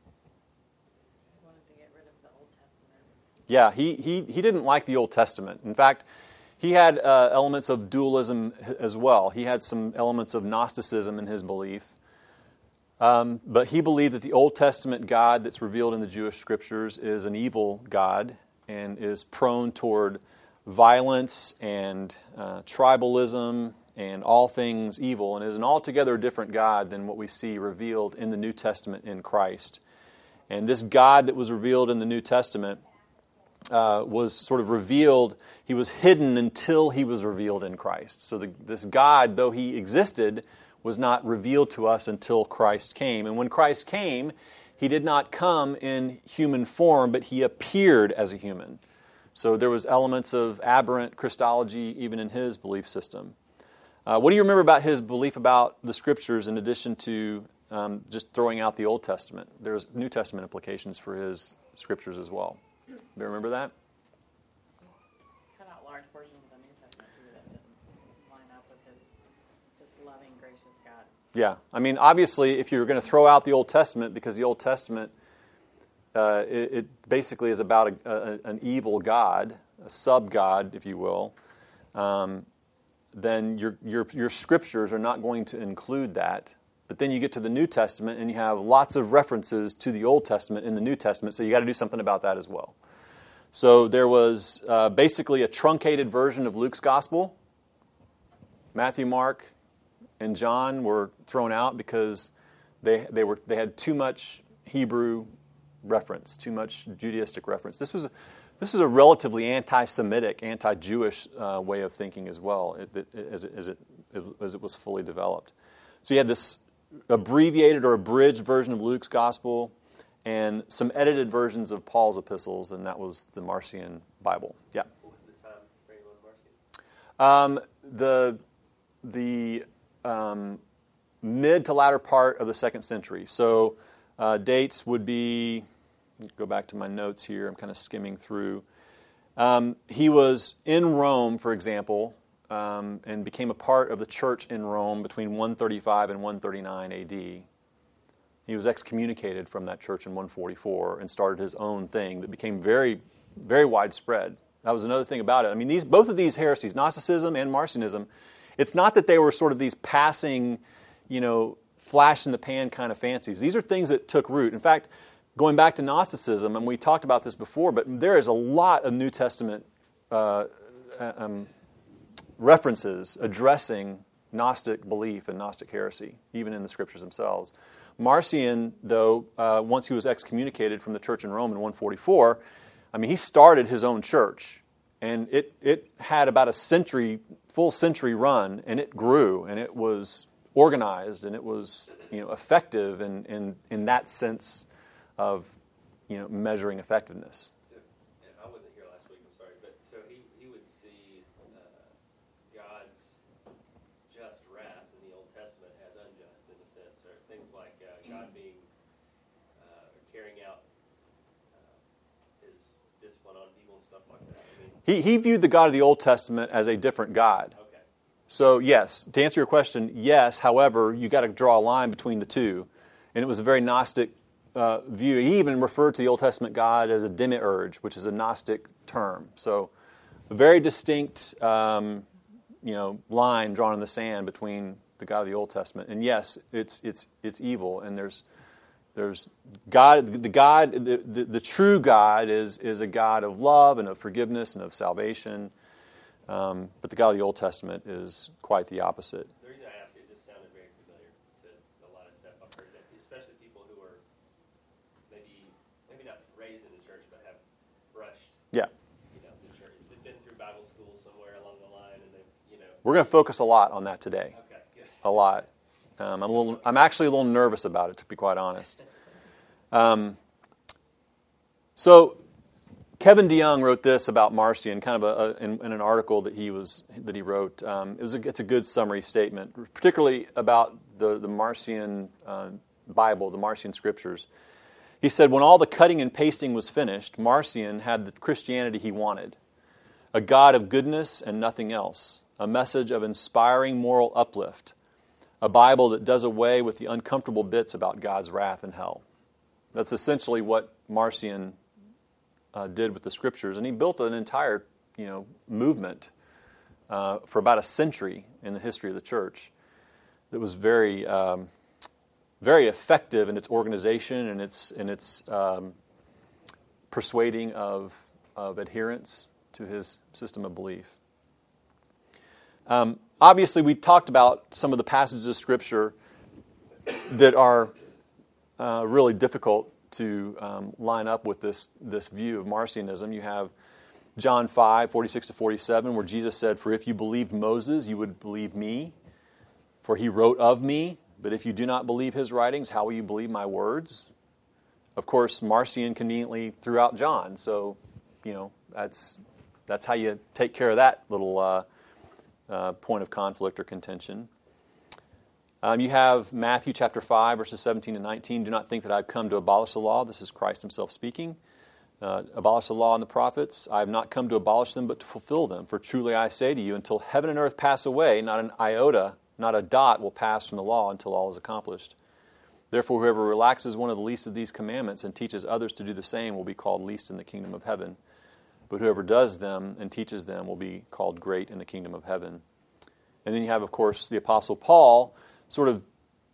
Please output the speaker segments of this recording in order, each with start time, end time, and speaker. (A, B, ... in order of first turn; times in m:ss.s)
0:01.4-0:03.1 A
0:03.5-0:06.0 B
0:06.6-0:11.9 B
0:13.0-0:29.8 B
0:30.5-0:32.8 B
0:33.7-0:48.8 B
0:49.4-0:53.4 B
0:54.1-1:02.6 B
1:03.2-1:03.7 B
1:05.6-1:09.2 A
1:09.8-1:11.1 A
1:11.3-1:15.1 B
1:16.1-1:21.3 B
1:21.9-1:22.5 B
1:23.1-1:32.8 B
1:33.5-1:37.4 B
1:38.7-1:39.5 B
1:40.2-1:42.3 B
1:42.8-1:45.3 B
1:45.8-1:55.5 B
1:56.0-1:59.7 B
2:00.2-2:04.9 B
2:05.0-2:06.6 C
2:07.2-2:08.4 B
2:09.0-2:10.6 B
2:11.2-2:15.6 B
2:16.4-2:18.6 B
2:19.4-2:27.5 B
2:28.5-2:51.5 B
2:52.4-3:14.7 B
3:15.2-3:15.5 B
3:16.1-3:17.5 B
3:17.7-3:21.9 C
3:22.5-3:23.2 C
3:24.1-3:28.7 C
3:29.6-3:30.6 C
3:31.5-3:31.8 C
3:32.4-3:34.8 C
3:34.8-3:37.5 B
3:37.5-3:37.8 C
3:38.3-3:49.7 B
3:50.3-3:52.1 B
3:52.6-3:58.2 B
3:59.0-4:05.5 B
4:06.3-4:09.3 B
4:09.4-4:14.0 C
4:15.1-4:17.4 C
4:17.9-4:18.4 C
4:19.1-4:22.8 C
4:22.8-4:24.4 B
4:24.3-4:25.1 C
4:25.0-4:25.5 B
4:26.0-4:28.8 B
4:29.7-4:30.2 B
4:31.8-4:32.2 B
4:33.0-4:44.3 B
4:45.0-4:49.4 B
4:50.1-4:54.7 B
4:55.4-4:59.0 B
4:59.7-5:01.6 B
5:02.5-5:06.1 B
5:06.9-5:09.5 B
5:10.3-5:11.5 B
5:12.4-5:15.7 B
5:16.9-5:21.0 B
5:22.7-5:26.0 B
5:26.9-5:27.7 B
5:28.6-5:33.5 B
5:34.2-5:38.9 B
5:39.8-5:44.1 B
5:45.0-5:51.6 B
5:52.5-5:54.3 B
5:55.6-6:01.4 B
6:02.0-6:12.0 B
6:12.7-6:18.0 B
6:18.7-6:22.4 B
6:23.2-6:25.8 B